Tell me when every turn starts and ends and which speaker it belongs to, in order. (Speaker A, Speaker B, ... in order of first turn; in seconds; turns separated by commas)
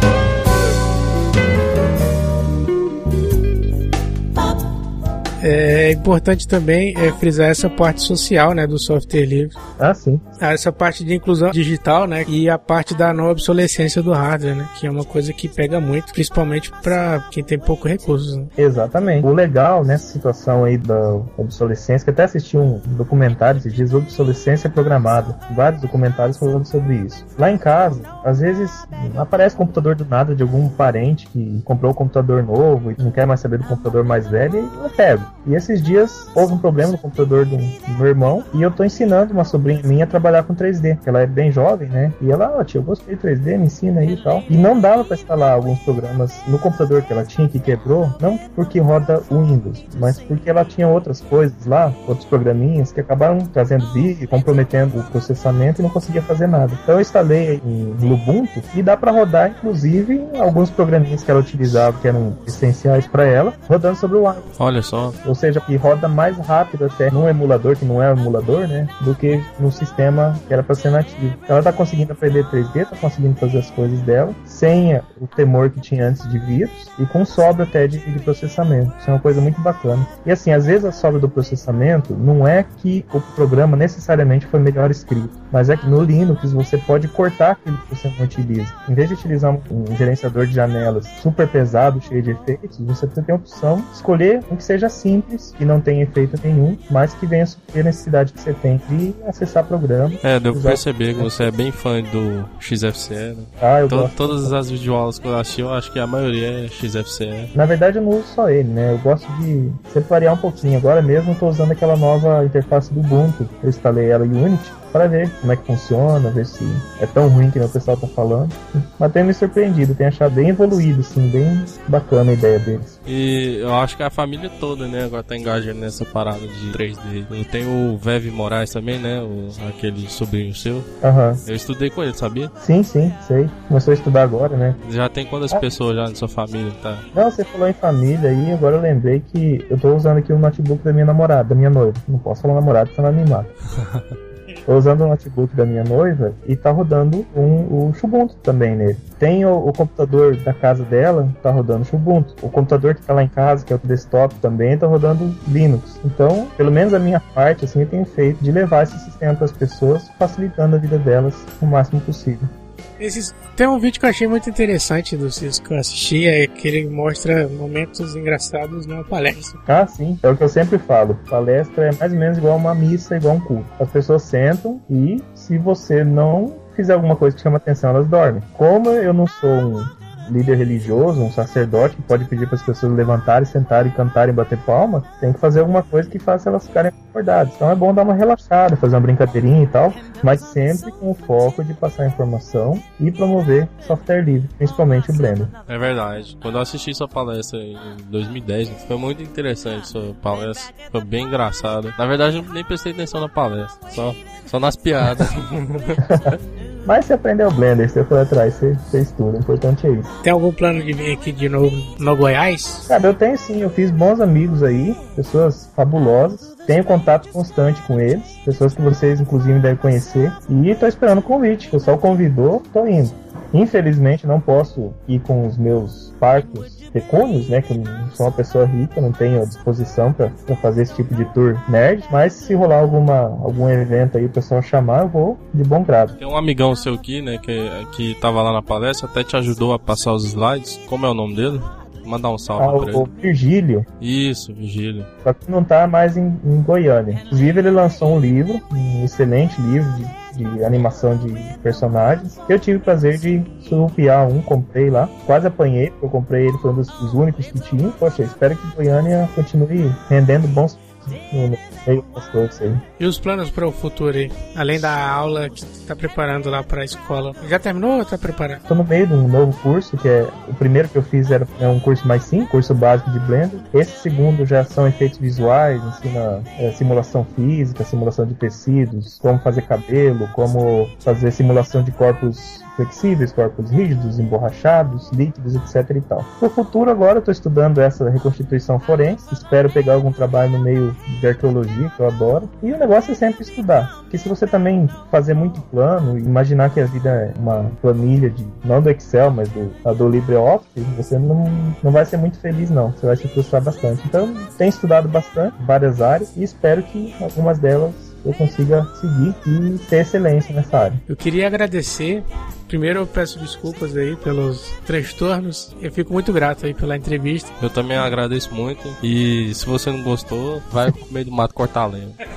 Speaker A: 5.4-9.6, Speaker B: 9.8-10.2, Speaker A: 10.4-18.5, Speaker B: 18.6-64.5, Speaker C: 64.6-65.2, Speaker B: 65.2-101.5, Speaker C: 100.2-107.5, Speaker B: 103.6-104.5, Speaker B: 107.5-123.0, Speaker C: 123.0-130.9, Speaker B: 131.0-131.4, Speaker C: 131.4-132.5, Speaker B: 132.6-134.8, Speaker C: 134.8-137.0, Speaker B: 137.1-143.5, Speaker B: 144.7-162.5, Speaker A: 163.0-169.6, Speaker B: 169.7-195.5, Speaker C: 195.7-206.3, Speaker B: 206.8-210.1, Speaker A: 210.2-212.9, Speaker B: 212.9-236.2, Speaker C: 236.2-243.1, Speaker B: 242.6-243.9, Speaker C: 244.0-245.1, Speaker B: 245.2-262.8, Speaker A: 263.0-268.6, Speaker B: 268.7-311.0, Speaker A: 311.1-317.5, Speaker C: 317.6-322.2